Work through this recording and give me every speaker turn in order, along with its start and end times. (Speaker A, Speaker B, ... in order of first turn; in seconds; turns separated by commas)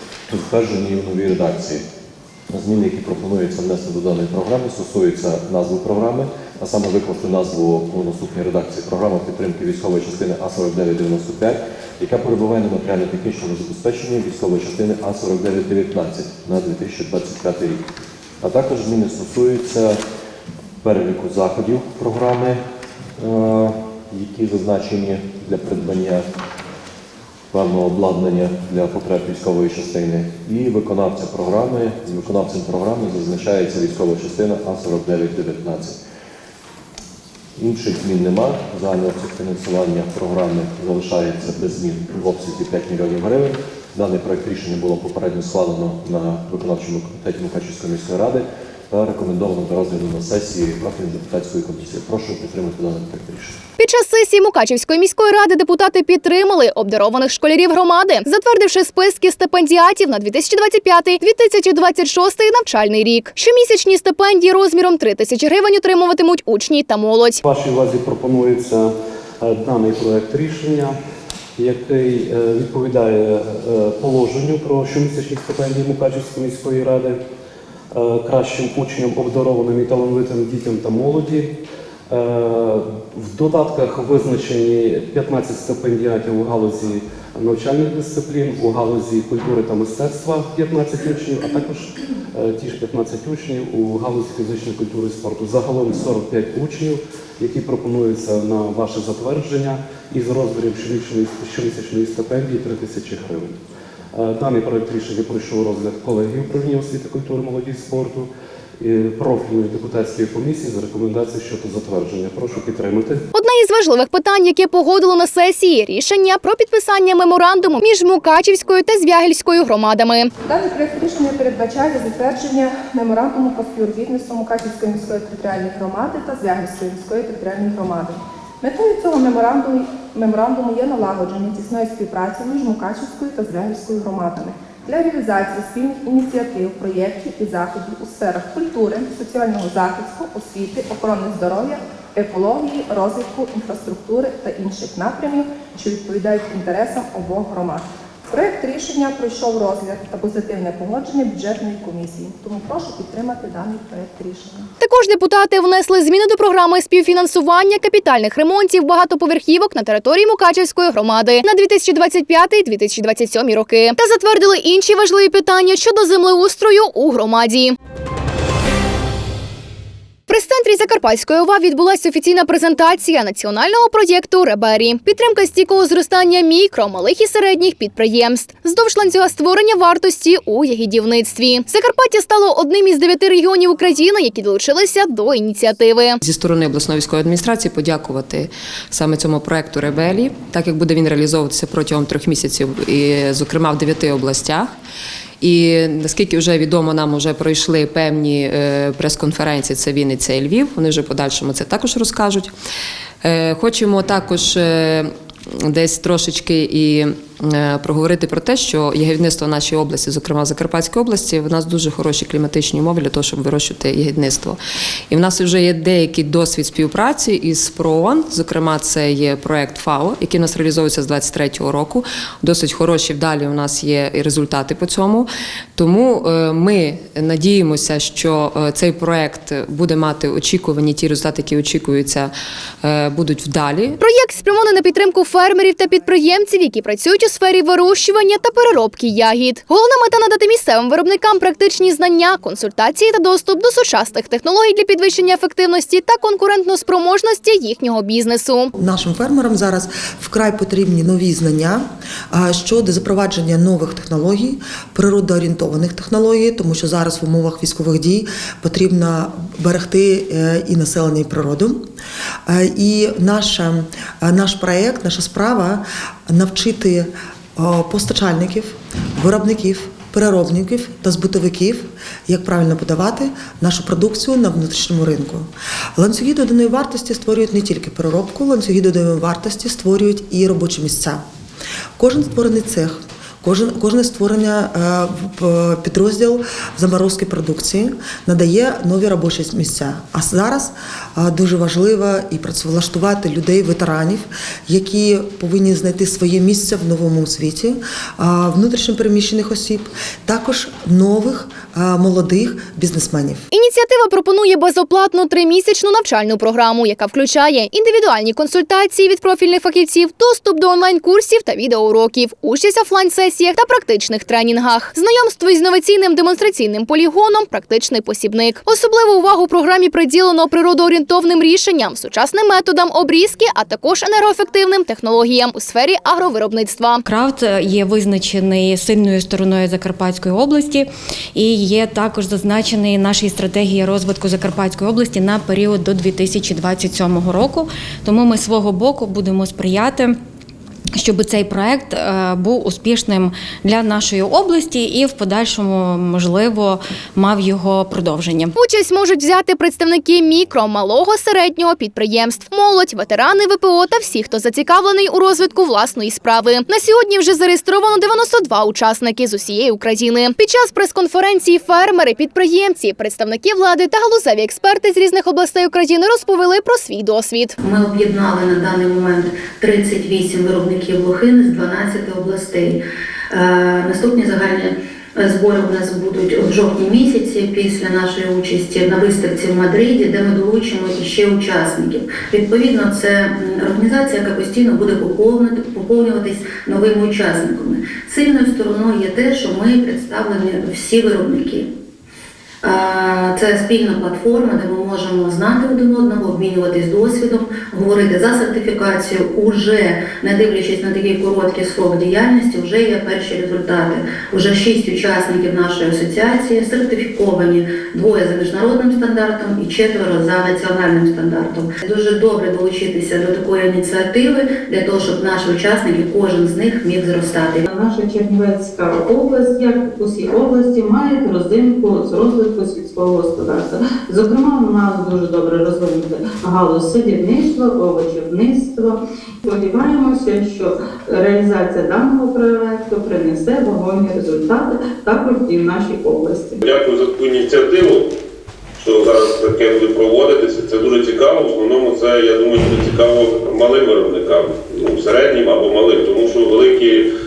Speaker A: 0.3-1.8, Speaker A: 2.5-17.8, Speaker A: 18.4-20.0, Speaker A: 20.8-22.6, Speaker A: 23.2-26.3, Speaker A: 27.5-36.0, Speaker A: 37.6-53.6, Speaker B: 53.8-67.4, Speaker C: 67.5-68.9, Speaker C: 69.4-70.9, Speaker C: 71.6-77.2, Speaker C: 78.0-81.5, Speaker C: 82.1-91.8, Speaker D: 91.0-91.7, Speaker C: 92.4-103.6, Speaker C: 104.2-108.3, Speaker C: 108.8-113.2, Speaker B: 113.3-120.3, Speaker E: 120.4-154.7, Speaker B: 154.8-167.8, Speaker B: 170.3-186.2, Speaker F: 186.2-194.7, Speaker F: 195.4-202.5, Speaker F: 203.2-234.0, Speaker B: 234.0-248.7, Speaker G: 248.8-261.9, Speaker G: 262.5-281.2, Speaker G: 282.0-303.5, Speaker B: 303.5-327.0, Speaker H: 327.1-340.2, Speaker H: 341.0-348.5, Speaker B: 348.6-367.6, Speaker I: 367.6-372.8, Speaker I: 373.3-391.7, Speaker I: 392.6-417.7, Speaker J: 417.7-436.6, Speaker D: 436.6-438.1, Speaker D: 438.8-447.0